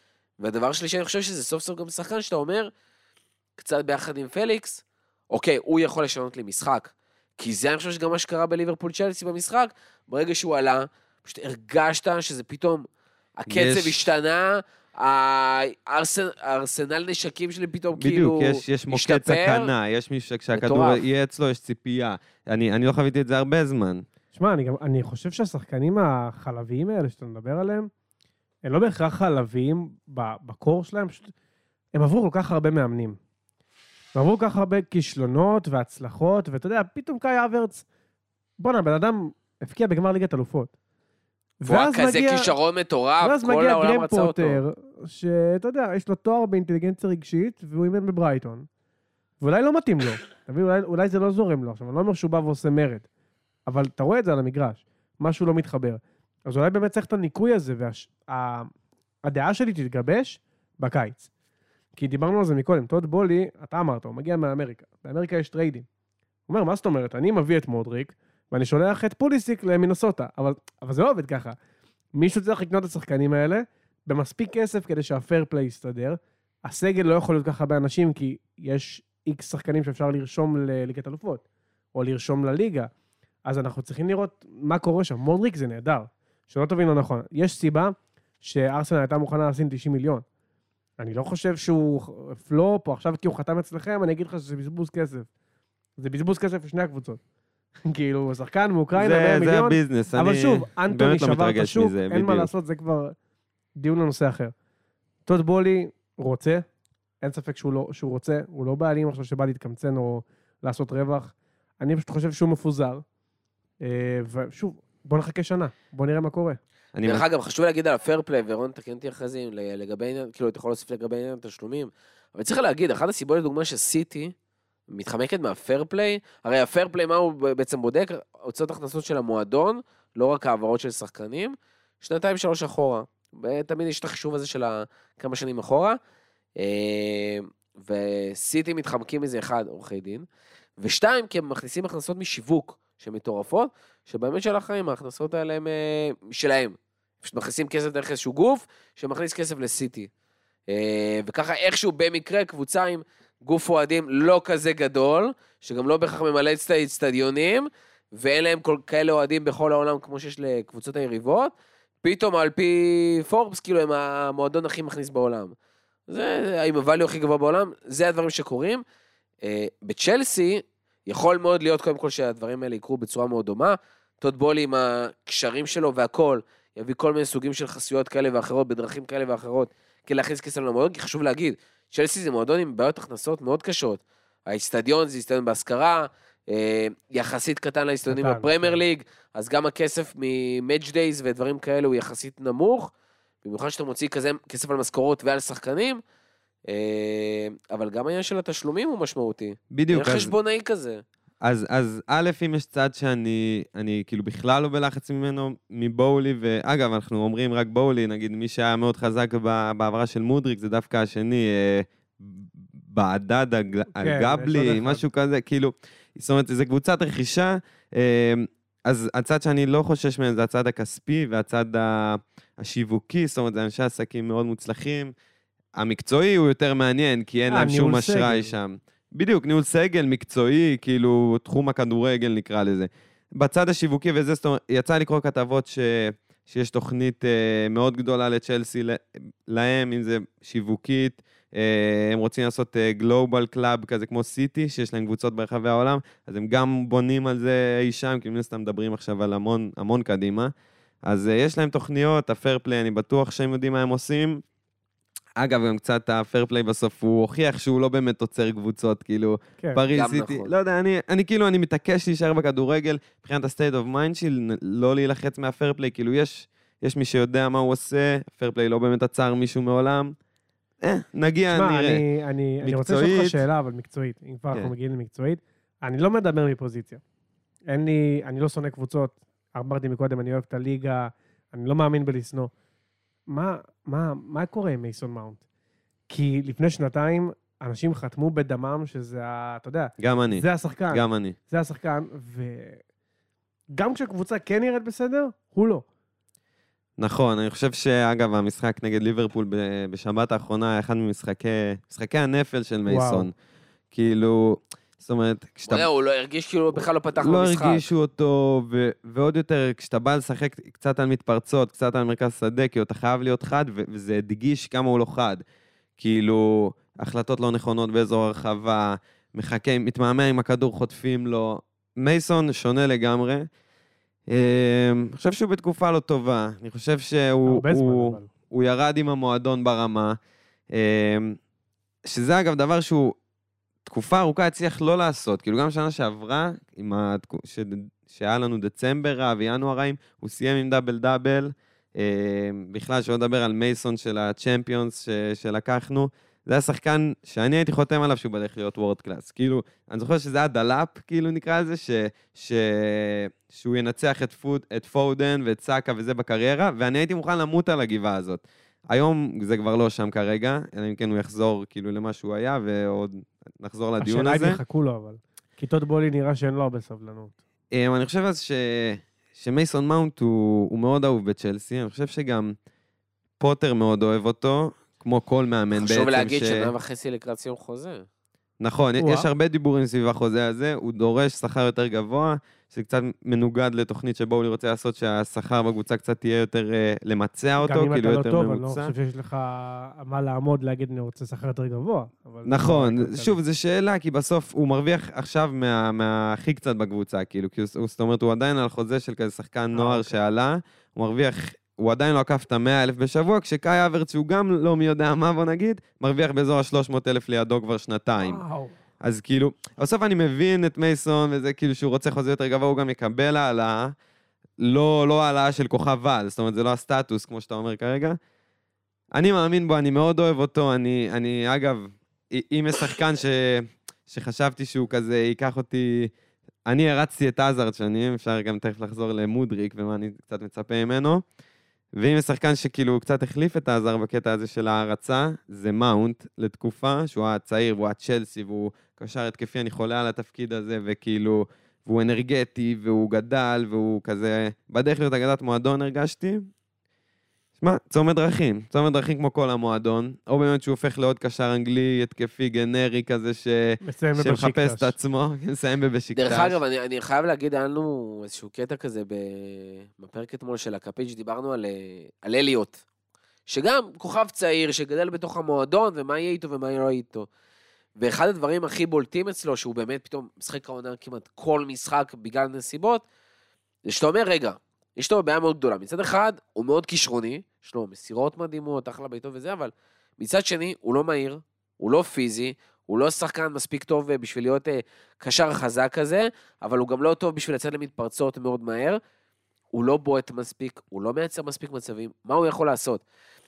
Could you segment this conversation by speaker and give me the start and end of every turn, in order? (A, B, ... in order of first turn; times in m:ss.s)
0:00.4-0:02.7 A
0:03.6-0:12.9 A
0:13.4-0:19.7 A
0:13.5-0:14.1 B
0:18.0-0:24.0 B
0:20.5-0:21.0 A
0:24.3-0:27.9 C
0:28.6-0:31.3 C
0:31.9-0:33.2 C
0:34.2-0:37.8 C
0:38.6-0:40.7 C
0:41.6-0:42.5 C
0:41.7-0:44.6 A
0:43.2-0:48.7 C
0:49.4-0:53.1 C
0:53.7-0:58.7 C
0:59.2-1:01.3 C
1:02.0-1:05.9 C
1:06.5-1:11.6 C
1:12.2-1:22.9 C
1:23.4-1:30.2 C
1:31.0-1:35.3 C
1:36.0-1:37.2 C
1:37.9-1:43.2 C
1:39.0-1:42.5 B
1:43.8-1:44.5 C
1:45.3-1:46.6 C
1:47.2-1:53.0 C
1:53.8-1:56.6 C
1:57.0-1:57.2 B
1:57.0-2:04.3 A
2:04.9-2:16.0 A
2:16.6-2:20.3 A
2:20.8-2:30.1 A
2:30.7-2:45.5 A
2:46.1-2:48.8 A
2:49.4-3:12.9 A
3:08.1-3:08.8 C
3:13.4-3:16.0 A
3:16.7-3:21.0 A
3:19.7-3:20.3 B
3:21.4-3:45.1 B
3:34.0-3:35.0 C
3:45.8-4:10.5 B
3:47.5-3:48.5 C
4:11.1-4:14.4 B
4:15.4-4:30.2 B
4:19.9-4:20.5 A
4:30.8-4:32.0 B
4:31.5-4:37.0 C
4:32.6-4:33.4 B
4:37.7-4:42.5 C
4:43.3-4:45.4 C
4:46.1-4:52.8 C
4:50.0-4:51.4 B
4:53.7-4:55.8 C
4:57.0-5:03.3 B
5:02.9-5:03.3 C
5:03.9-5:05.9 B
5:05.7-5:07.9 A
5:07.2-5:15.4 B
5:16.0-5:23.5 B
5:24.3-5:30.2 B
5:27.4-5:28.3 C
5:30.7-5:31.4 B
5:32.0-5:33.2 B
5:33.9-6:04.6 B
6:04.0-6:07.3 C
6:07.7-6:12.6 B
6:13.4-6:16.7 B
6:15.8-6:18.1 A
6:18.6-6:28.9 B
6:19.0-6:19.3 C
6:27.6-6:33.4 C
6:32.5-6:48.4 B
6:39.7-6:40.2 C
6:48.2-6:48.7 C
6:49.0-6:54.0 B
6:54.6-6:58.2 B
6:59.1-7:06.1 B
7:06.7-7:11.2 B
7:12.0-7:26.5 B
7:27.6-7:36.6 B
7:33.8-7:34.9 C
7:36.2-7:42.8 A
7:43.5-7:47.3 A
7:48.0-7:53.0 A
7:53.8-8:09.0 A
8:09.7-8:13.0 A